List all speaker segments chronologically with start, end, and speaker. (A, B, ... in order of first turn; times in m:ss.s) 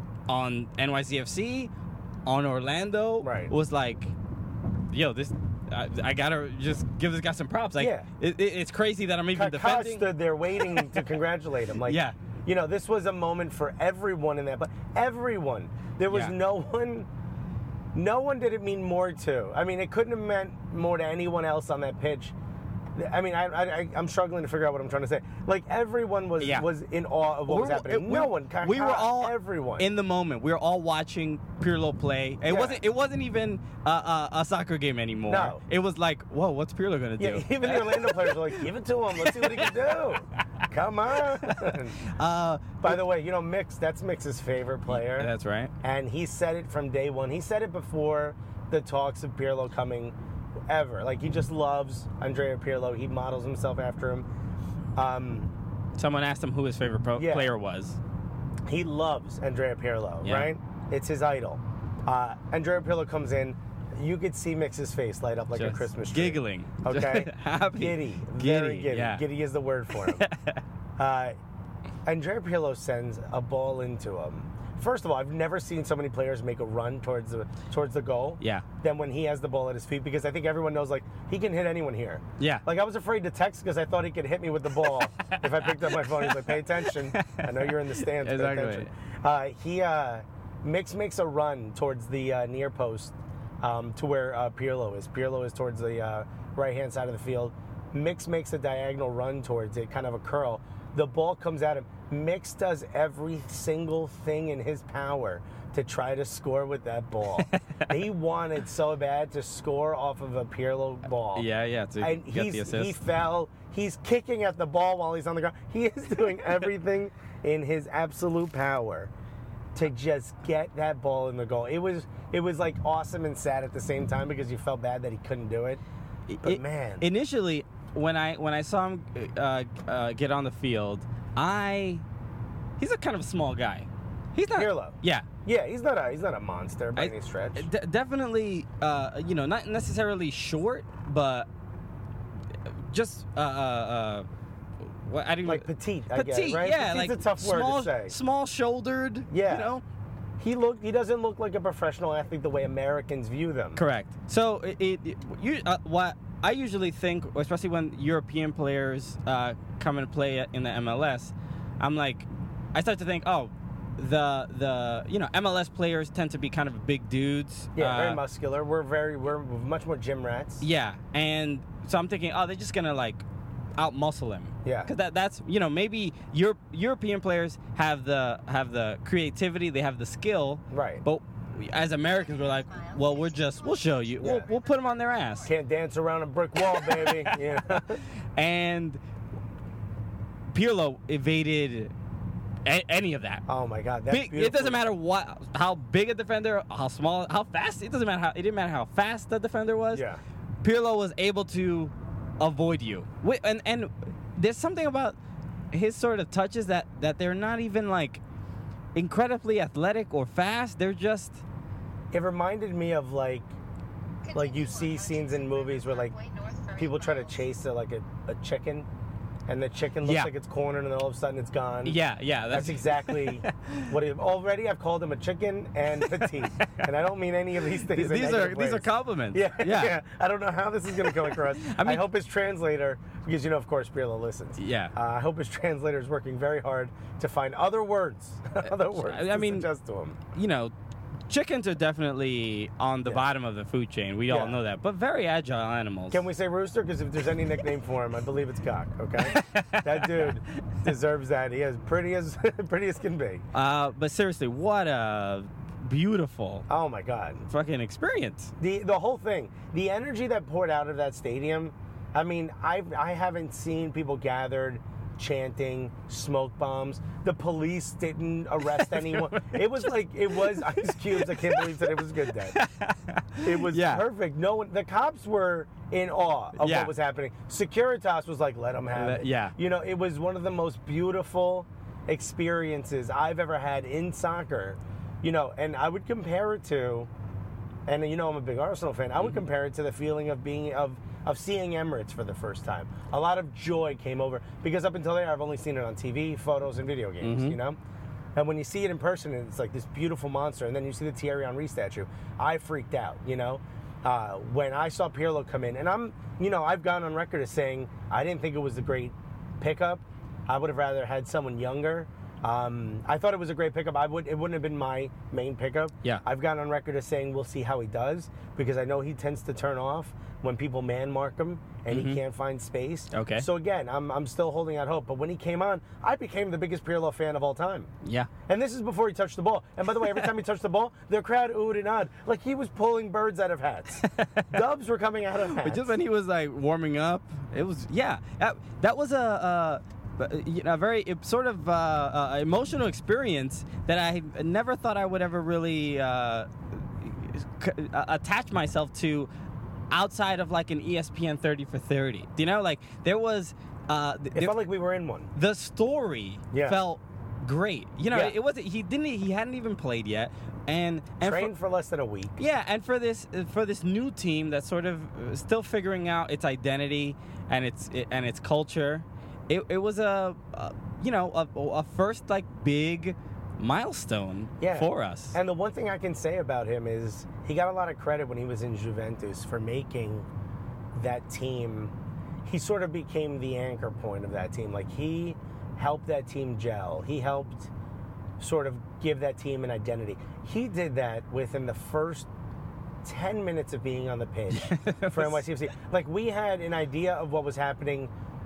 0:00.3-0:01.7 A
0:02.2-0:04.1 A
0:03.2-0:03.5 B
0:04.9-0:10.1 A
0:07.8-0:08.1 B
0:09.3-0:17.1 B
0:11.8-0:12.2 A
0:16.1-0:16.3 A
0:17.9-0:22.3 B
0:22.9-0:29.9 B
0:26.4-0:26.7 A
0:27.4-0:38.6 A
0:32.4-0:32.8 B
0:35.3-0:35.6 B
0:37.2-0:42.0 B
0:39.2-0:39.7 A
0:41.4-0:43.0 A
0:42.8-0:45.3 B
0:44.9-0:45.7 A
0:45.8-0:50.1 B
0:50.7-0:54.3 B
0:55.0-0:55.5 B
0:56.0-0:58.0 A
0:57.2-0:57.5 B
0:58.6-1:10.2 B
1:00.2-1:00.5 A
1:05.5-1:09.2 A
1:09.9-1:10.6 A
1:11.0-1:11.4 B
1:12.0-1:51.5 B
1:18.4-1:18.6 A
1:22.4-1:22.6 A
1:25.1-1:28.9 A
1:47.4-1:47.9 A
1:51.3-1:53.0 A
1:52.0-1:59.1 B
1:59.7-2:05.8 B
2:06.3-2:12.0 A
2:06.4-2:07.1 B
2:12.8-2:15.2 A
2:14.5-2:17.7 B
2:16.9-2:21.5 A
2:22.7-2:24.3 A
2:25.0-2:29.8 A
2:25.4-2:28.2 B
2:29.3-2:29.7 B
2:30.4-2:33.8 B
2:33.8-2:48.2 A
2:47.8-2:50.6 B
2:50.6-2:53.2 A
2:53.8-3:05.5 A
2:54.6-2:54.9 B
3:00.7-3:01.0 B
3:02.0-3:05.6 C
3:04.2-3:04.5 B
3:05.4-3:08.0 B
3:08.4-3:09.0 A
3:10.5-3:11.9 A
3:12.6-3:13.4 A
3:13.5-3:14.8 B
3:14.1-3:20.0 A
3:19.9-3:20.2 B
3:20.6-3:25.2 A
3:25.7-3:28.2 A
3:28.9-3:31.4 A
3:32.1-3:33.5 B
3:34.2-3:37.4 C
3:34.3-3:36.1 B
3:36.8-3:38.9 B
3:39.5-4:00.2 B
3:40.0-3:40.3 A
3:41.8-3:43.9 A
3:47.7-3:50.0 A
3:51.0-3:52.0 A
3:54.6-3:54.9 A
3:58.6-3:59.7 A
4:00.3-4:00.7 A
4:01.3-4:06.2 A
4:04.3-4:04.6 B
4:06.1-4:13.4 B
4:09.2-4:10.4 A
4:13.5-4:16.6 A
4:16.7-4:17.4 B
4:17.5-4:18.5 A
4:18.6-4:32.6 B
4:28.7-4:29.6 A
4:30.3-4:31.8 A
4:32.5-4:34.0 A
4:33.4-4:47.1 B
4:36.6-4:36.9 A
4:38.9-4:39.6 A
4:47.9-4:57.8 B
4:57.2-4:57.6 A
4:58.4-5:27.9 B
5:21.9-5:22.2 A
5:23.1-5:23.5 A
5:28.0-5:28.3 A
5:28.5-5:35.9 B
5:34.0-5:34.5 A
5:35.6-5:49.3 A
5:49.9-5:54.6 A
5:54.3-5:55.3 B
5:55.3-6:01.5 A
5:56.5-5:56.8 B
5:58.1-5:58.4 B
6:01.2-6:02.4 B
6:02.4-6:15.4 A
6:14.6-6:20.3 B
6:20.9-6:21.9 B
6:22.4-6:27.7 B
6:28.4-6:32.3 B
6:33.0-6:38.1 B
6:34.5-6:35.4 A